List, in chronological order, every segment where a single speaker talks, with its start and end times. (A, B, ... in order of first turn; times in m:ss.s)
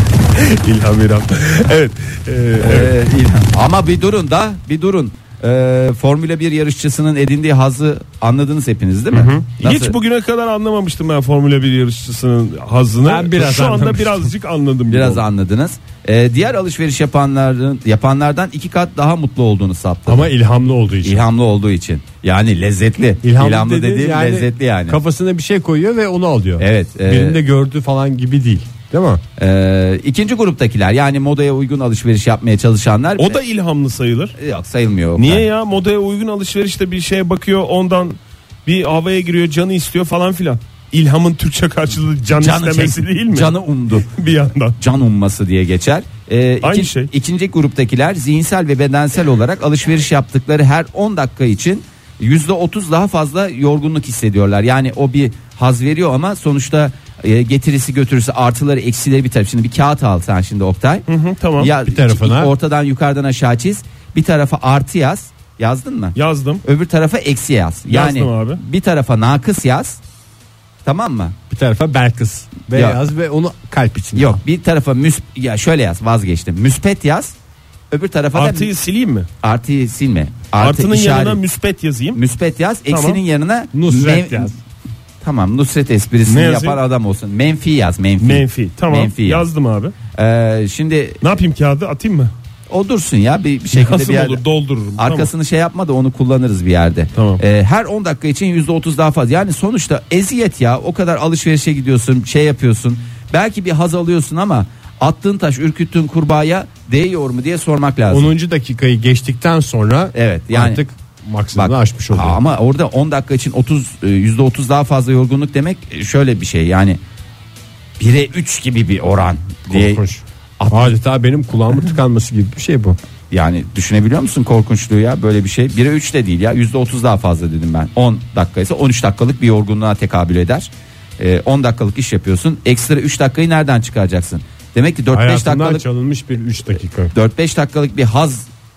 0:00.3-0:03.0 A
0:02.6-0:10.0 B
0:09.1-0:15.2 A
0:13.0-0:14.3 C
0:14.9-0:20.3 B
0:20.1-0:21.3 C
0:21.0-0:25.0 B
0:23.2-0:29.2 C
0:26.6-0:27.4 B
0:29.4-0:33.4 B
0:33.2-0:34.4 A
0:34.4-0:35.5 B
0:35.2-0:44.8 A
0:42.4-0:44.1 B
0:44.8-1:01.1 B
0:46.6-0:47.1 A
1:01.1-1:01.7 A
1:01.6-1:10.0 B
1:01.8-1:02.5 C
1:06.2-1:06.6 A
1:07.9-1:08.6 A
1:10.8-1:11.4 B
1:11.5-1:14.4 C
1:12.7-1:13.0 B
1:14.2-1:17.3 B
1:17.9-1:18.7 B
1:18.3-1:19.3 A
1:19.4-1:21.4 B
1:20.6-1:22.2 A
1:22.1-1:24.6 B
1:22.9-1:23.2 A
1:23.7-1:24.6 C
1:25.2-1:29.5 B
1:26.3-1:26.8 A
1:28.2-1:29.9 A
1:30.2-1:31.2 B
1:31.2-1:32.3 A
1:32.7-1:34.4 B
1:33.7-1:35.3 A
1:35.0-1:48.3 B
1:37.2-1:37.4 A
1:48.1-1:52.4 C
1:50.1-1:50.8 B
1:51.5-1:57.0 B
1:58.0-2:00.0 B
1:59.7-2:03.0 C
2:00.6-2:01.0 B
2:03.3-2:15.8 B
2:15.1-2:17.1 C
2:17.1-2:18.5 B